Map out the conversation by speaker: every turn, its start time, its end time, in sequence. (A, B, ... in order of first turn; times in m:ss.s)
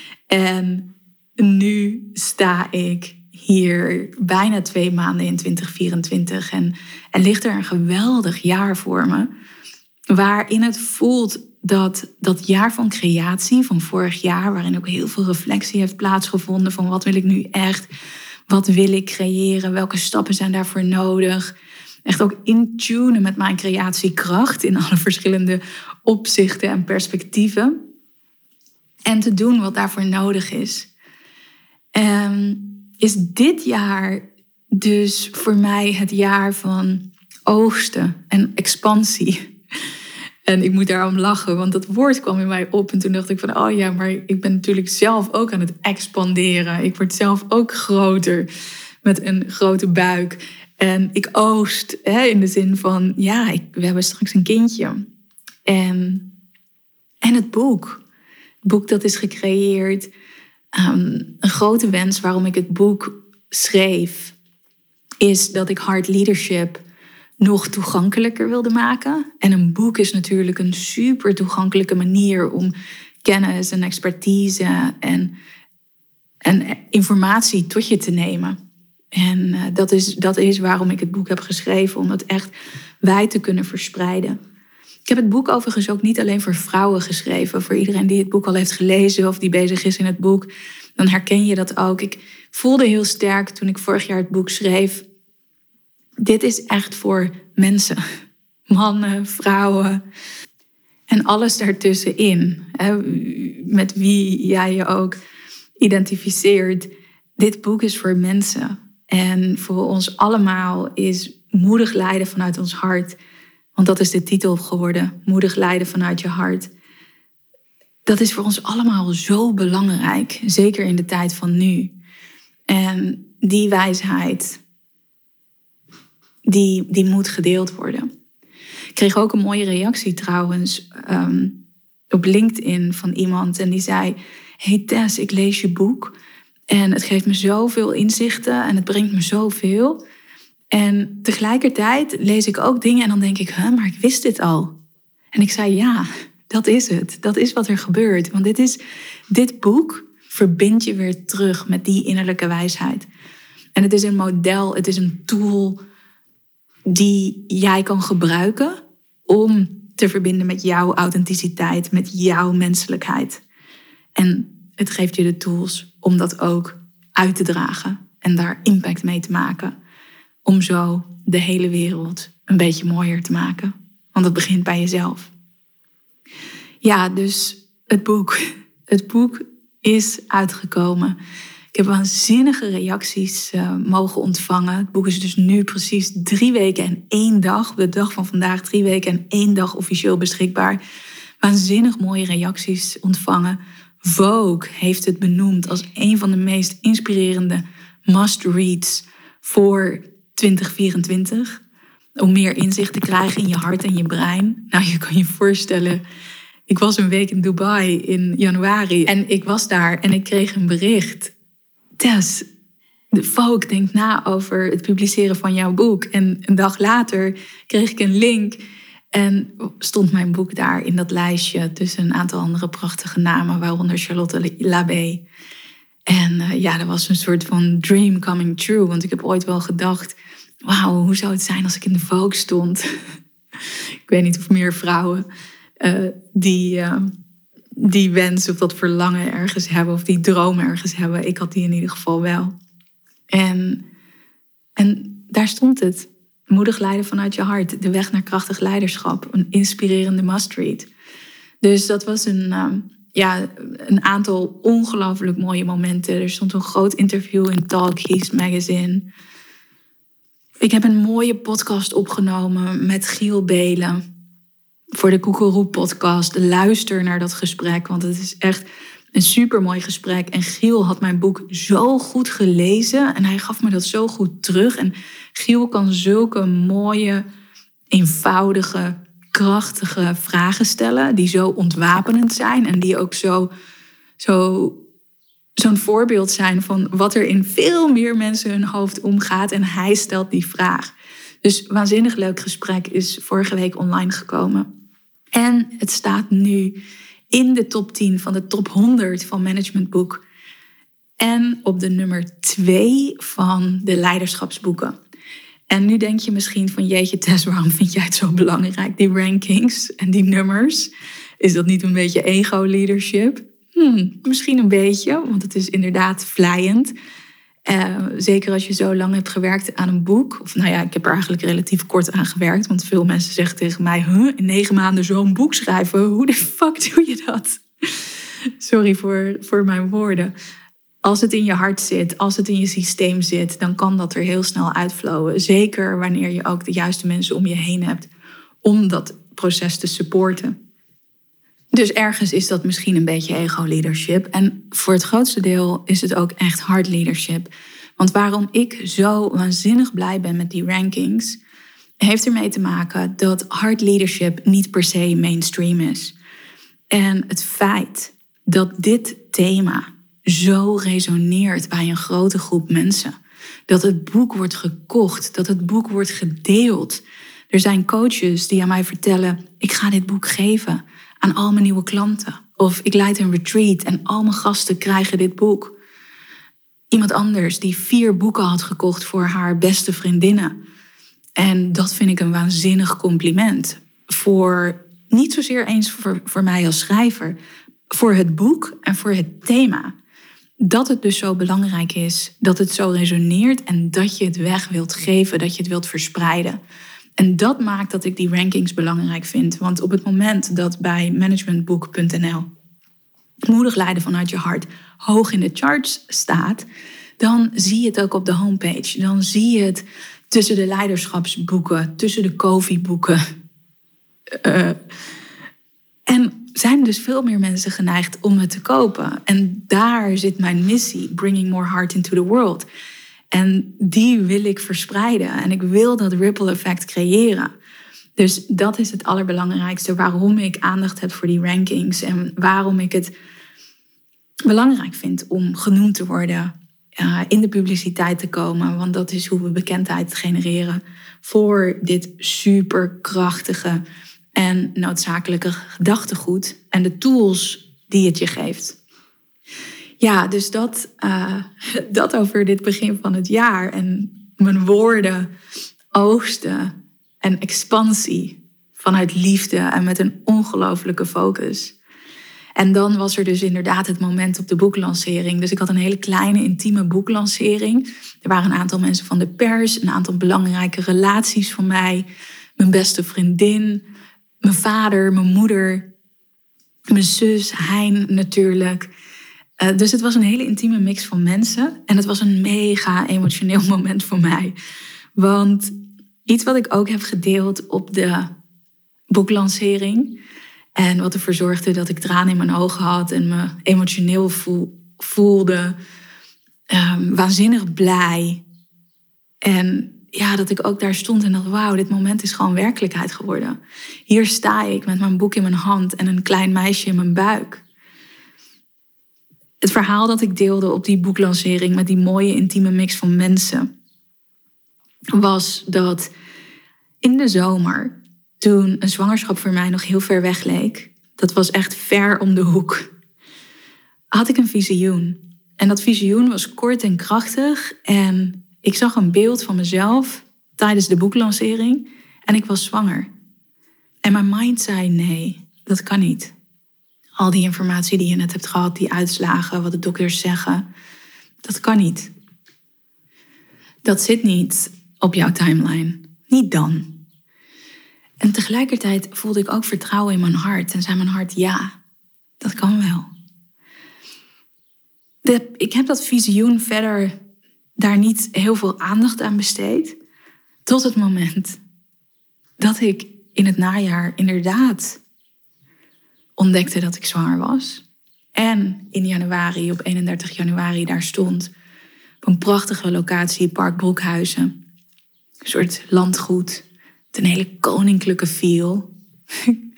0:00.3-0:09.3 A
0:10.1-0:17.9 A
0:18.5-0:21.5 A
0:22.0-0:27.8 A
0:29.1-0:30.9 A
0:31.9-0:39.4 A
0:40.5-0:48.5 A
0:49.0-0:55.0 A
0:55.7-0:56.3 A
0:57.2-0:58.0 A
0:58.6-1:00.1 A
1:00.7-1:04.4 A
1:05.2-1:06.8 A
1:07.4-1:12.7 A
1:13.2-1:15.3 A
1:16.4-1:18.6 A
1:19.1-1:22.5 A
1:23.0-1:24.4 A
1:25.0-1:35.0 A
1:36.2-1:38.0 A
1:38.7-1:40.0 A
1:41.1-1:45.2 A
1:45.8-1:53.2 A
1:53.8-1:56.7 A
1:58.0-2:01.9 A
2:02.7-2:04.6 A
2:06.5-2:08.1 A
2:09.0-2:11.6 A
2:12.1-2:16.2 A
2:16.7-2:20.0 A
2:20.7-2:24.7 A
2:25.3-2:28.8 A
2:29.3-2:33.1 A
2:33.7-2:35.8 A
2:36.9-2:43.4 A
2:44.2-2:49.7 A
2:50.4-2:55.3 A
2:56.8-3:01.2 A
3:01.7-3:10.8 A
3:11.4-3:21.6 A
3:22.2-3:26.0 A
3:26.7-3:31.3 A
3:32.0-3:32.4 A
3:33.1-3:38.6 A
3:39.1-3:45.2 A
3:46.1-3:52.8 A
3:54.1-3:55.2 A
3:55.8-3:57.1 A
3:57.8-4:02.6 A
4:03.3-4:03.8 A
4:04.8-4:10.9 A
4:11.6-4:19.0 A
4:20.6-4:24.0 A
4:24.9-4:37.2 A
4:37.9-4:43.5 A
4:44.2-4:44.8 A
4:45.6-4:54.7 A
4:55.3-4:56.8 A
4:57.3-5:00.2 A
5:01.2-5:05.0 A
5:05.7-5:10.9 A
5:11.4-5:16.9 A
5:17.7-5:30.3 A
5:31.0-5:38.1 A
5:38.6-5:40.6 A
5:41.7-5:51.4 A
5:52.0-5:56.1 A
5:56.9-6:03.1 A
6:03.7-6:15.8 A
6:16.9-6:20.5 A
6:21.4-6:27.4 A
6:27.9-6:29.9 A
6:30.6-6:36.6 A
6:37.2-6:42.5 A
6:43.5-6:46.6 A
6:47.2-6:53.2 A
6:54.3-6:54.8 A
6:56.1-7:02.6 A
7:03.3-7:07.5 A
7:08.2-7:13.1 A
7:14.4-7:23.8 A
7:24.4-7:28.8 A
7:30.0-7:35.3 A
7:35.9-7:41.7 A
7:42.6-7:52.1 A
7:52.6-7:53.8 A
7:54.4-7:55.9 A
7:56.9-7:58.9 A
7:59.6-8:04.5 A
8:05.2-8:05.7 A
8:06.2-8:08.3 A
8:09.1-8:10.2 A
8:10.8-8:15.8 A
8:16.7-8:18.4 A
8:19.4-8:23.6 A
8:24.1-8:27.6 A
8:29.6-8:33.7 A
8:35.1-8:36.1 A
8:37.0-8:42.9 A
8:44.1-8:53.1 A
8:54.0-8:56.3 A
8:57.2-9:00.6 A
9:01.4-9:02.1 A
9:03.8-9:07.0 A
9:08.2-9:11.7 A
9:12.4-9:13.1 A
9:15.2-9:17.1 A
9:17.8-9:20.0 A
9:20.6-9:21.6 A
9:22.6-9:25.0 A
9:26.4-9:27.8 A
9:28.3-9:31.5 A
9:32.2-9:34.5 A
9:35.4-9:39.6 A